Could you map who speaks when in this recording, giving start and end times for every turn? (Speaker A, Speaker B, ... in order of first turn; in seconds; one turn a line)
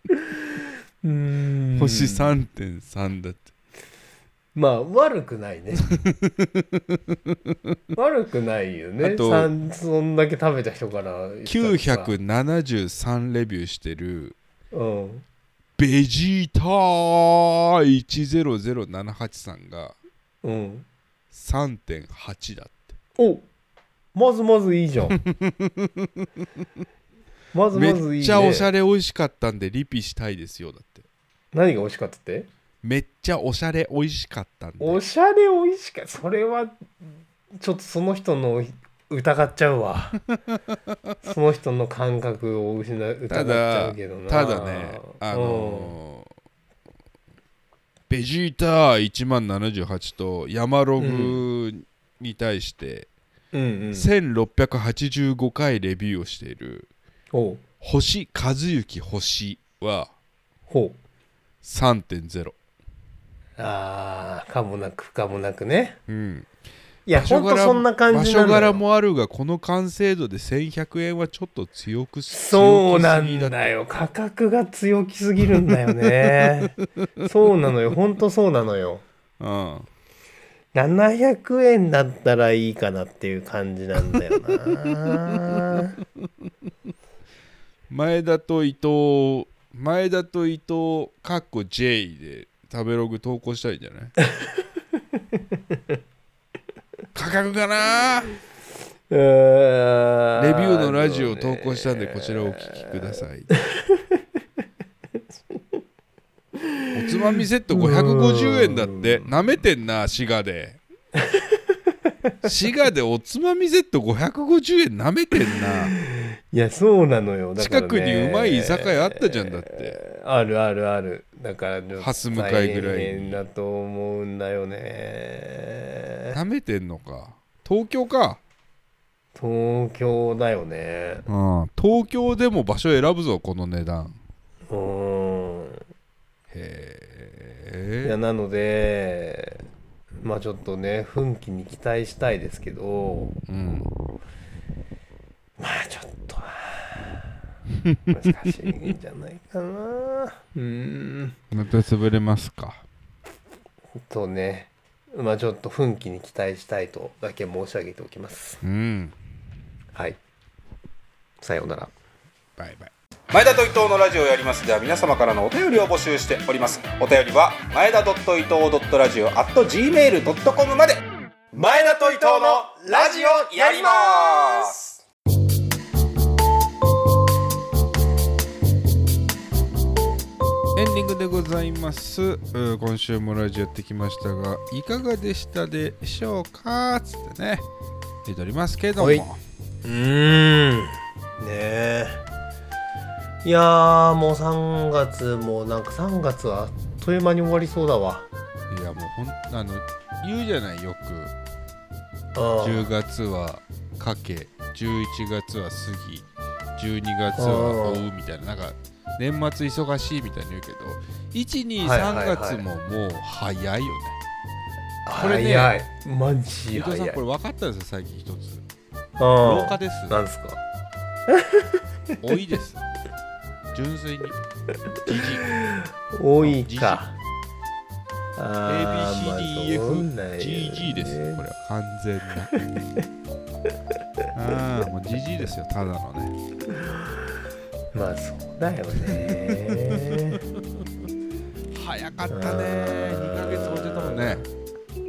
Speaker A: 1.0-2.3
Speaker B: 1.7-3.5
Speaker A: 4.5-5.9
Speaker B: 5.9-7.8
Speaker A: 7.9-12.1
Speaker B: 9.0-9.5
Speaker B: 11.4-14.4
Speaker A: 14.7-15.2
Speaker B: 15.8-19.9
Speaker A: 20.4-20.9
Speaker B: 21.3-22.9
Speaker A: 23.2-23.4
Speaker A: 24.1-25.2
Speaker B: 25.1-26.3
Speaker A: 27.5-28.7
Speaker B: 27.7-31.0
Speaker A: 31.5-32.5
Speaker B: 32.8-35.0
Speaker A: 34.8-36.9
Speaker A: 37.6-40.2
Speaker B: 40.3-41.1
Speaker A: 41.2-45.9
Speaker B: 43.3-46.3
Speaker B: 48.1-53.1
Speaker A: 51.0-51.4
Speaker A: 53.5-54.1
Speaker B: 53.9-56.9
Speaker A: 57.3-57.6
Speaker B: 57.8-60.1
Speaker A: 60.7-61.0
Speaker B: 61.6-62.5
Speaker A: 63.6-66.0
Speaker B: 66.1-66.5
Speaker A: 67.0-68.8
Speaker B: 67.1-73.6
Speaker A: 72.3-79.0
Speaker B: 79.4-79.9
Speaker A: 80.7-86.0
Speaker B: 85.0-85.8
Speaker B: 87.9-94.2
Speaker A: 95.3-95.8
Speaker B: 97.1-98.3
Speaker A: 99.1-102.9
Speaker B: 100.3-103.5
Speaker A: 103.7-104.0
Speaker A: 106.6-109.3
Speaker B: 106.9-110.8
Speaker B: 112.4-116.0
Speaker A: 116.0-126.3
Speaker B: 117.6-120.0
Speaker B: 122.0-123.4
Speaker B: 126.3-128.4
Speaker A: 129.3-131.2
Speaker B: 131.3-134.2
Speaker A: 134.7-135.8
Speaker B: 136.5-138.2
Speaker A: 138.0-139.6
Speaker A: 140.2-143.3
Speaker B: 143.5-143.9
Speaker A: 145.6-147.2
Speaker B: 147.8-148.7
Speaker A: 148.1-151.4
Speaker B: 151.5-152.8
Speaker A: 153.9-158.6
Speaker B: 158.6-159.1
Speaker A: 159.9-160.2
Speaker A: 161.4-161.9
Speaker B: 162.6-162.9
Speaker C: 163.3-171.0
Speaker C: 171.5-175.0
Speaker B: 180.8-187.6
Speaker B: 188.2-189.4
Speaker A: 189.0-189.2
Speaker A: 189.8-192.2
Speaker A: 193.4-198.3
Speaker B: 198.7-201.3
Speaker A: 202.3-202.9
Speaker B: 202.6-214.2
Speaker A: 207.4-208.1
Speaker A: 211.8-212.6
Speaker A: 215.1-217.2
Speaker B: 215.2-215.7
Speaker B: 216.7-218.6
Speaker A: 219.2-220.6
Speaker B: 219.4-220.2
Speaker A: 221.3-221.8
Speaker B: 222.2-222.8
Speaker B: 223.7-224.4
Speaker B: 225.0-225.6
Speaker A: 225.7-227.1
Speaker B: 226.4-227.0
Speaker A: 228.4-231.4
Speaker B: 228.7-232.5
Speaker B: 234.3-236.3
Speaker A: 236.8-237.1
Speaker A: 237.9-240.4
Speaker B: 239.0-240.8
Speaker B: 241.7-244.4
Speaker A: 242.3-244.5